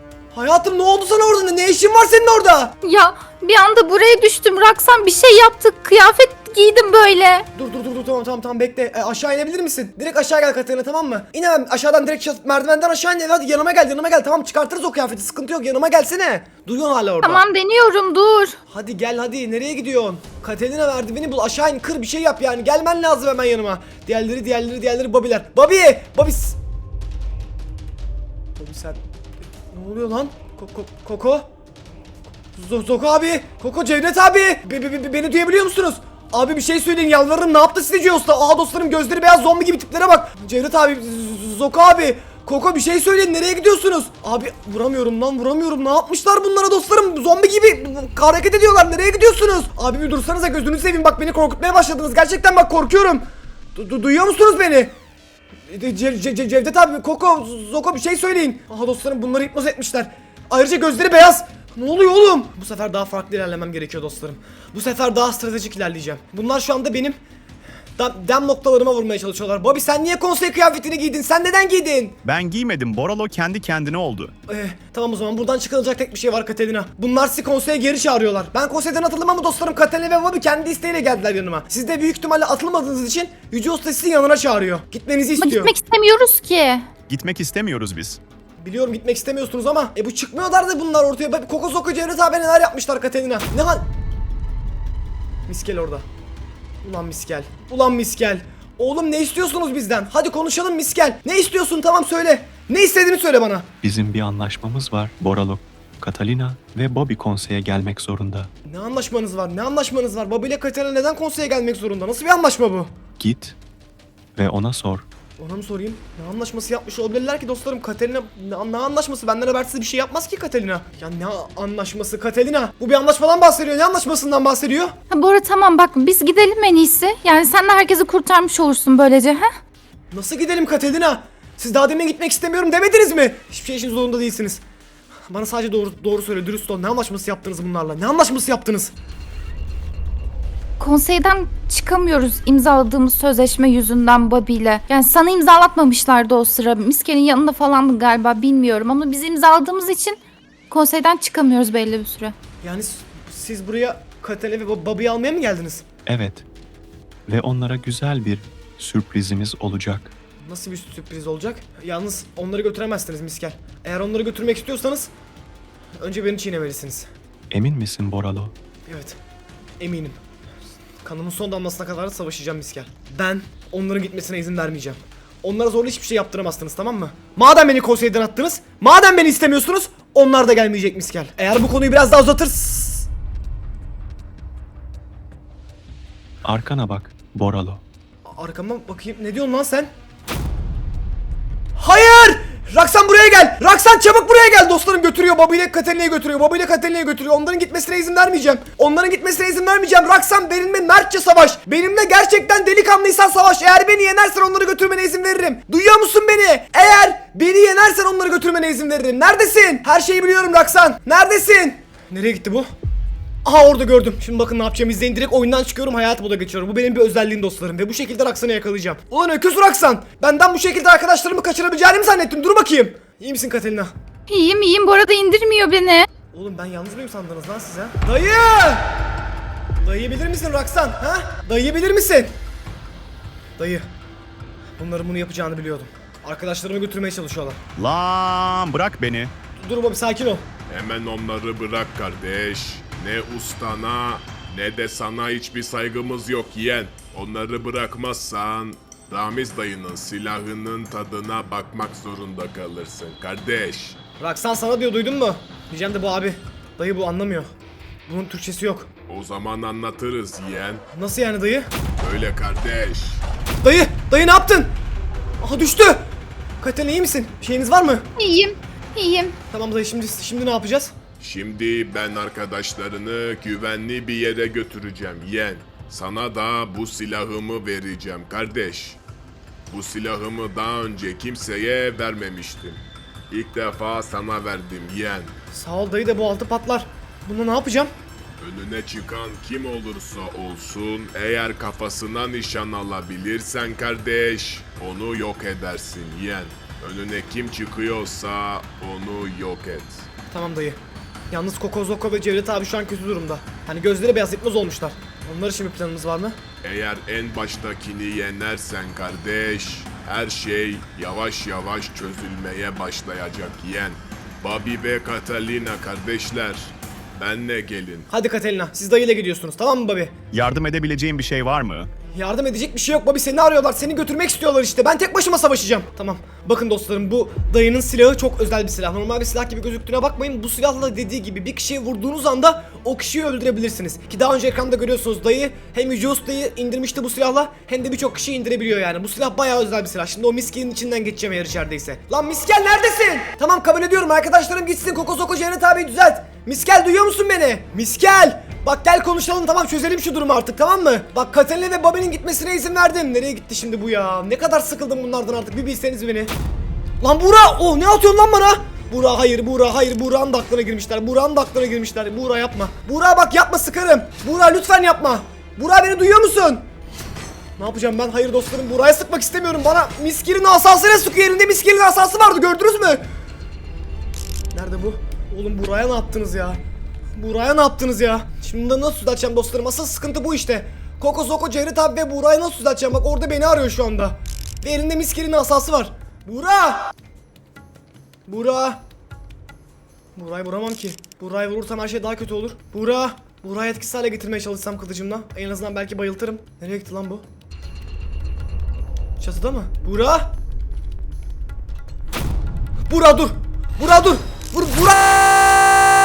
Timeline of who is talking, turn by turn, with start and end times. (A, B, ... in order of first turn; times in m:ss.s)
0:00.3-0:02.7 A
0:02.8-0:07.4 B
0:07.5-0:17.4 A
0:17.2-0:18.6 B
0:18.7-0:26.6 A
0:28.6-0:29.0 A
0:29.7-0:31.5 A
0:32.5-0:54.9 A
0:55.7-1:07.2 A
1:08.0-1:12.2 A
1:12.2-1:14.3 C
1:14.5-1:25.7 A
1:25.4-1:26.9 B
1:27.1-1:28.2 C
1:28.6-1:33.8 A
1:35.5-1:36.0 A
1:36.8-1:43.7 A
1:43.8-1:48.5 D
1:48.6-1:52.9 A
1:53.2-1:53.6 D
1:54.4-1:55.1 D
1:55.4-2:04.9 A
2:05.1-2:09.5 B
2:10.1-2:14.6 A
2:15.3-2:18.9 A
2:20.8-2:30.2 B
2:30.7-2:32.3 B
2:32.6-2:35.8 A
2:36.0-2:36.4 D
2:37.3-2:40.1 D
2:40.4-2:45.1 A
2:46.0-2:47.1 A
2:47.5-2:48.5 D
2:48.9-2:49.2 A
2:49.8-2:50.2 A
2:51.0-3:03.1 A
3:06.4-3:07.8 D
3:08.3-3:09.9 A
3:11.8-3:32.7 A
3:33.4-3:43.9 A
3:44.3-3:46.1 B
3:46.3-3:48.9 A
3:49.8-3:52.3 A
3:53.6-3:53.9 A
3:54.8-3:57.6 A
3:57.8-3:59.3 C
3:59.6-4:00.4 A
4:00.7-4:14.0 E
4:14.2-4:17.5 A
4:18.1-4:18.9 A
4:19.1-4:20.8 E
4:20.9-4:21.7 A
4:22.0-4:23.2 E
4:23.6-4:24.7 A
4:25.4-4:26.1 A
4:26.6-4:28.1 A
4:28.2-4:29.4 B
4:29.5-4:30.9 A
4:31.2-4:39.0 E
4:39.7-4:45.3 E
4:45.5-4:47.9 A
4:48.4-5:00.1 E
5:00.3-5:00.8 A
5:01.3-5:06.4 A
5:06.6-5:18.1 E
5:18.1-5:20.1 A
5:20.3-5:21.9 C
5:22.1-5:56.3 A
5:57.0-6:06.6 A
6:07.6-6:13.0 A
6:14.5-6:16.6 A
6:17.2-6:26.9 A
6:28.3-6:28.8 A
6:30.2-6:37.2 A
6:39.2-6:40.3 A
6:42.9-6:45.8 A